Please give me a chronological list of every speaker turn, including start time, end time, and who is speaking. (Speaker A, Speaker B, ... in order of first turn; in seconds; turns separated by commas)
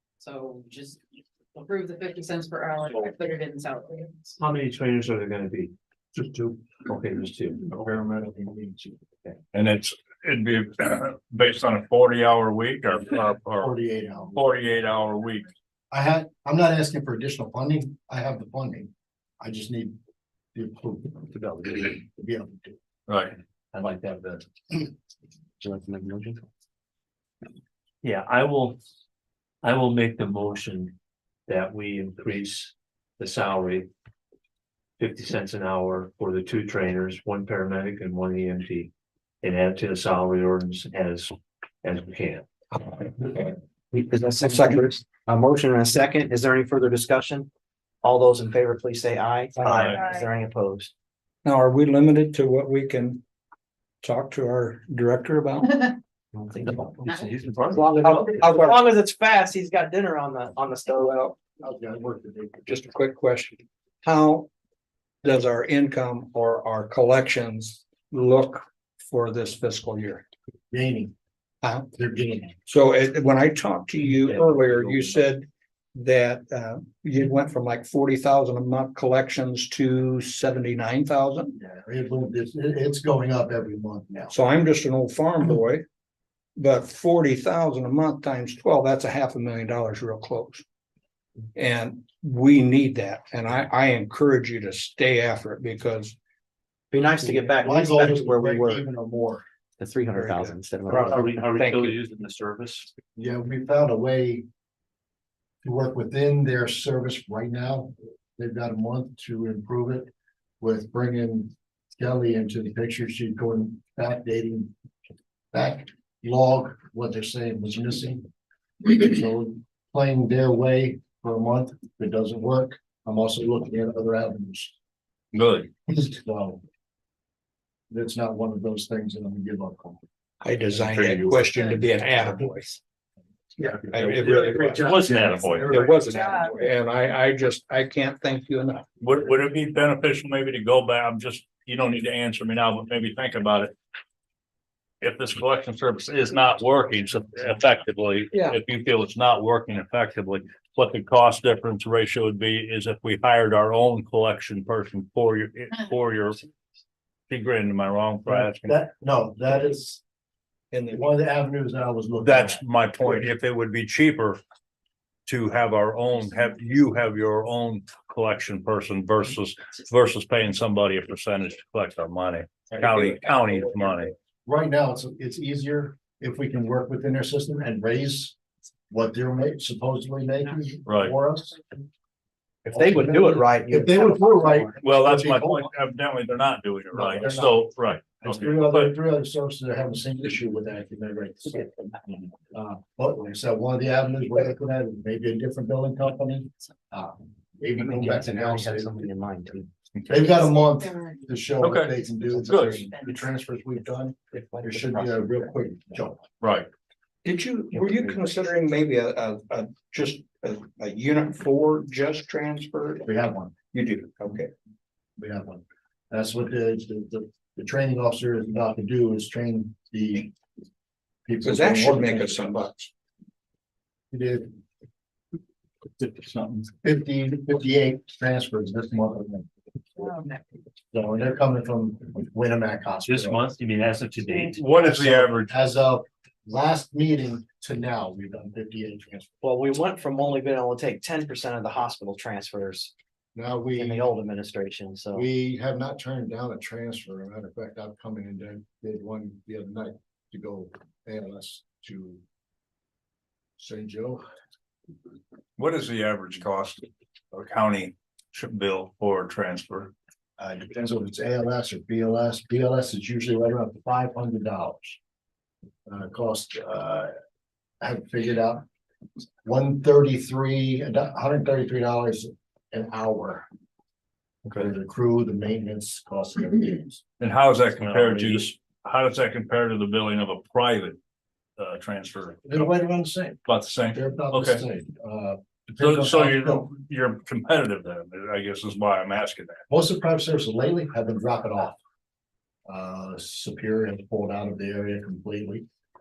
Speaker A: 0.2-1.0, Speaker A: 1.5-4.4, Speaker B: 4.4-5.7, Speaker C: 6.2-6.6, Speaker B: 6.8-7.6, Speaker C: 7.6-9.0, Speaker D: 9.5-13.7, Speaker C: 13.6-14.3, Speaker D: 14.3-15.5, Speaker C: 15.9-19.9, Speaker C: 20.5-22.8, Speaker D: 23.1-23.4, Speaker C: 23.7-24.4, Speaker E: 25.6-26.4, Speaker B: 28.0-28.8, Speaker B: 29.6-30.9, Speaker B: 31.5-33.9, Speaker B: 35.0-38.9, Speaker B: 39.4-42.5, Speaker F: 43.0-43.5, Speaker E: 43.9-47.5, Speaker F: 44.5-44.8, Speaker E: 48.0-50.9, Speaker F: 49.6-49.9, Speaker B: 49.6-49.9, Speaker F: 51.4-53.2, Speaker F: 54.0-55.9, Speaker E: 56.3-56.8, Speaker B: 56.5-58.1, Speaker E: 57.7-61.2, Speaker F: 57.8-58.8, Speaker F: 60.9-61.3, Speaker C: 61.6-62.7, Speaker F: 62.6-64.5, Speaker F: 65.2-70.2, Speaker C: 70.7-71.1, Speaker F: 71.6-71.9, Speaker C: 71.9-72.6, Speaker F: 72.7-81.5, Speaker B: 74.3-75.1, Speaker C: 81.6-84.3, Speaker F: 84.3-85.8, Speaker F: 86.5-90.6, Speaker F: 91.5-96.2, Speaker E: 96.9-98.8, Speaker C: 97.4-99.4, Speaker E: 99.8-101.5, Speaker F: 100.1-102.0, Speaker B: 100.9-102.9, Speaker C: 103.2-104.4, Speaker C: 105.6-110.1, Speaker C: 110.6-114.7, Speaker C: 115.5-118.2, Speaker C: 118.8-124.7, Speaker D: 125.3-125.7, Speaker C: 125.9-126.6, Speaker C: 127.9-130.0, Speaker F: 130.4-132.8, Speaker B: 133.6-135.9, Speaker F: 133.7-138.8, Speaker E: 134.4-136.4, Speaker D: 139.0-143.7, Speaker D: 145.0-156.4, Speaker F: 148.3-148.6, Speaker D: 157.3-158.7, Speaker C: 158.2-160.0, Speaker F: 160.7-161.0, Speaker C: 160.9-163.2, Speaker D: 162.2-164.4, Speaker D: 165.2-174.1, Speaker C: 174.4-178.3, Speaker C: 178.9-181.6, Speaker D: 180.8-181.1, Speaker E: 182.6-184.8, Speaker C: 182.7-185.7, Speaker D: 184.8-188.9, Speaker C: 186.9-187.7, Speaker C: 188.2-191.7, Speaker C: 192.5-198.9, Speaker E: 197.8-199.7, Speaker C: 200.1-206.2, Speaker D: 201.6-202.9, Speaker E: 204.3-205.5, Speaker D: 206.4-206.7, Speaker F: 207.2-213.1, Speaker E: 207.7-208.4, Speaker C: 213.0-213.5, Speaker F: 213.7-214.5, Speaker C: 215.2-220.3, Speaker C: 221.2-222.7, Speaker F: 221.4-222.9, Speaker C: 224.1-224.6, Speaker D: 226.0-226.7, Speaker C: 226.8-229.5, Speaker C: 230.9-233.4, Speaker B: 233.1-234.6, Speaker D: 234.4-235.5, Speaker C: 234.8-239.3, Speaker E: 239.4-242.9, Speaker C: 243.3-244.1, Speaker E: 243.7-245.2, Speaker C: 245.1-252.2, Speaker C: 253.6-254.2, Speaker D: 255.6-259.9, Speaker C: 260.4-265.0, Speaker C: 265.9-267.1, Speaker C: 267.8-268.6, Speaker C: 269.4-273.5, Speaker C: 274.4-277.0, Speaker D: 277.2-281.0, Speaker B: 277.8-278.3, Speaker D: 281.6-282.7, Speaker C: 282.5-283.4, Speaker D: 283.4-284.6, Speaker C: 283.9-286.7, Speaker D: 285.8-289.6, Speaker C: 289.7-291.8, Speaker C: 292.7-295.6